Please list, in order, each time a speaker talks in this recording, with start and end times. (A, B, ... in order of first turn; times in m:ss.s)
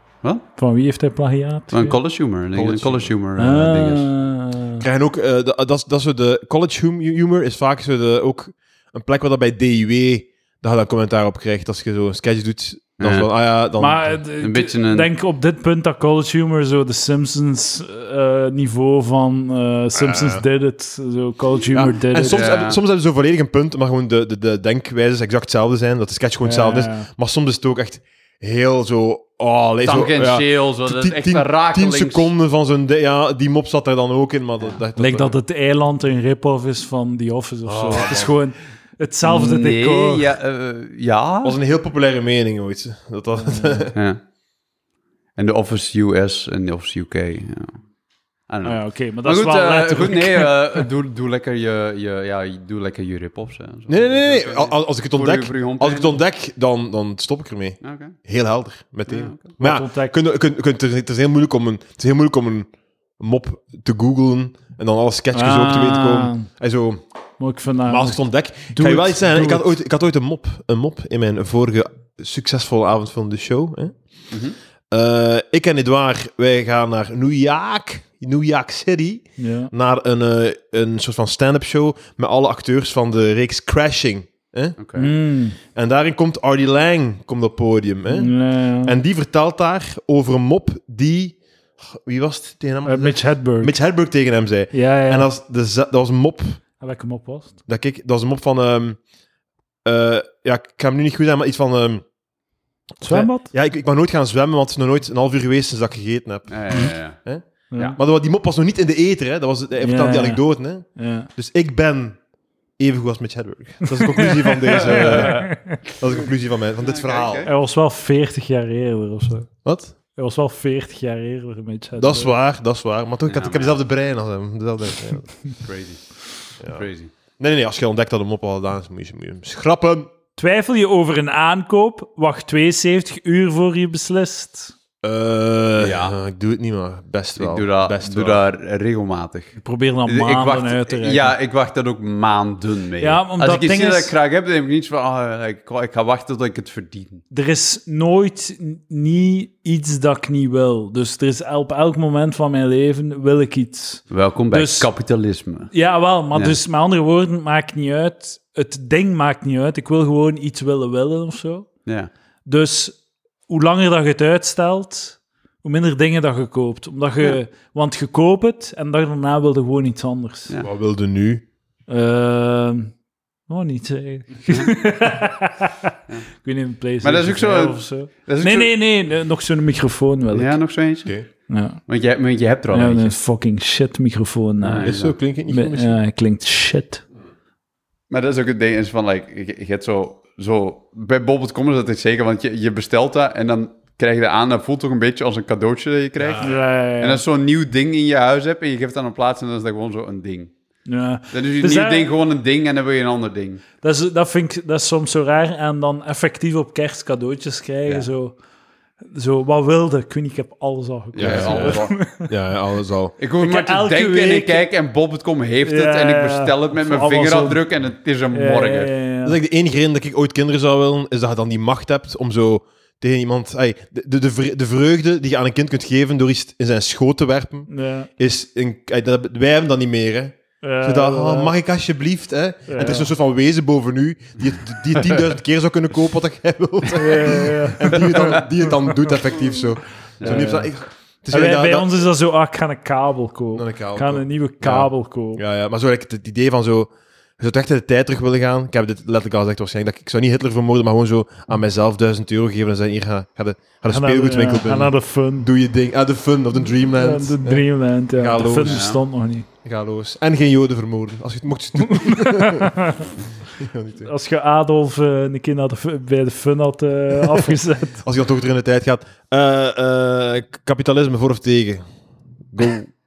0:00.6-0:02.0 A
0:01.7-0:04.1 B
0:02.5-0:03.1 C
0:03.4-0:04.8 A
0:04.8-0:14.2 C
0:13.0-0:13.3 B
0:13.8-0:22.4 A
0:14.4-0:15.1 B
0:20.0-0:20.4 C
0:21.7-0:35.4 C
0:22.3-0:22.8 B
0:26.4-0:27.1 A
0:29.8-0:32.3 B
0:35.0-0:40.3 A
0:37.6-0:38.3 C
0:39.2-0:41.6 B
0:41.4-0:43.9 C
0:43.4-0:43.9 A
0:43.9-0:44.2 B
0:45.4-0:47.8 B
0:48.5-0:56.2 B
0:48.6-0:50.8 A
0:53.9-1:02.7 C
0:57.8-0:58.2 B
0:59.1-0:59.5 B
0:59.6-1:00.1 A
1:03.2-1:07.0 C
1:05.3-1:06.5 A
1:07.4-1:08.2 A
1:07.9-1:14.0 C
1:08.7-1:09.7 A
1:14.9-1:24.8 C
1:19.4-1:19.7 A
1:24.8-1:25.1 B
1:25.0-1:25.6 A
1:25.7-1:36.6 C
1:28.1-1:28.9 A
1:32.8-1:33.7 A
1:34.7-1:35.3 A
1:36.8-1:37.6 A
1:37.7-1:39.0 C
1:39.8-1:42.0 C
1:43.0-1:43.5 A
1:43.1-1:47.4 C
1:46.5-1:47.2 B
1:47.7-1:48.0 A
1:47.9-1:52.2 C
1:49.8-1:51.3 A
1:52.8-1:57.5 C
1:53.8-1:55.8 A
1:54.8-1:55.5 B
1:56.8-1:57.5 B
1:57.4-1:59.5 A
1:59.6-1:59.9 C
2:00.1-2:02.3 A
2:02.0-2:05.3 C
2:03.3-2:03.8 B
2:05.6-2:07.1 B
2:06.6-2:06.9 C
2:07.4-2:10.1 C
2:10.4-2:14.7 A
2:15.0-2:18.4 C
2:15.8-2:16.1 B
2:17.4-2:27.2 B
2:19.6-2:21.3 A
2:23.0-2:24.1 A
2:27.3-2:34.9 A
2:34.1-2:35.7 B
2:35.7-2:41.7 A
2:42.4-2:50.5 A
2:50.6-2:51.4 C
2:51.9-2:52.9 A
2:53.5-3:00.6 A
2:57.0-2:58.7 B
3:00.3-3:01.1 B
3:01.5-3:01.8 A
3:01.9-3:03.2 B
3:02.7-3:04.9 A
3:04.6-3:05.1 B
3:04.8-3:06.0 C
3:05.5-3:07.0 A
3:08.1-3:20.5 B
3:16.2-3:16.5 C
3:16.4-3:17.2 A
3:20.9-3:22.1 A
3:21.3-3:23.6 B
3:23.8-3:28.4 A
3:29.1-3:32.3 A
3:31.2-3:33.2 C
3:31.2-3:31.9 B
3:33.2-3:38.9 B
3:33.4-3:34.7 A
3:35.6-3:37.6 A
3:38.3-3:39.4 A
3:39.2-4:02.0 C
3:47.7-3:48.1 A
3:50.6-3:51.5 A
3:52.7-3:53.1 A
3:56.9-3:58.9 A
4:00.2-4:00.5 B
4:00.2-4:00.7 A
4:01.3-4:05.4 A
4:03.5-4:17.6 C
4:13.9-4:15.5 A
4:17.0-4:19.4 A
4:18.2-4:18.8 C
4:18.6-4:19.0 B
4:19.6-4:22.9 C
4:21.8-4:23.1 A
4:23.5-4:24.1 C
4:24.0-4:28.0 A
4:28.0-4:31.8 C
4:32.5-4:32.9 C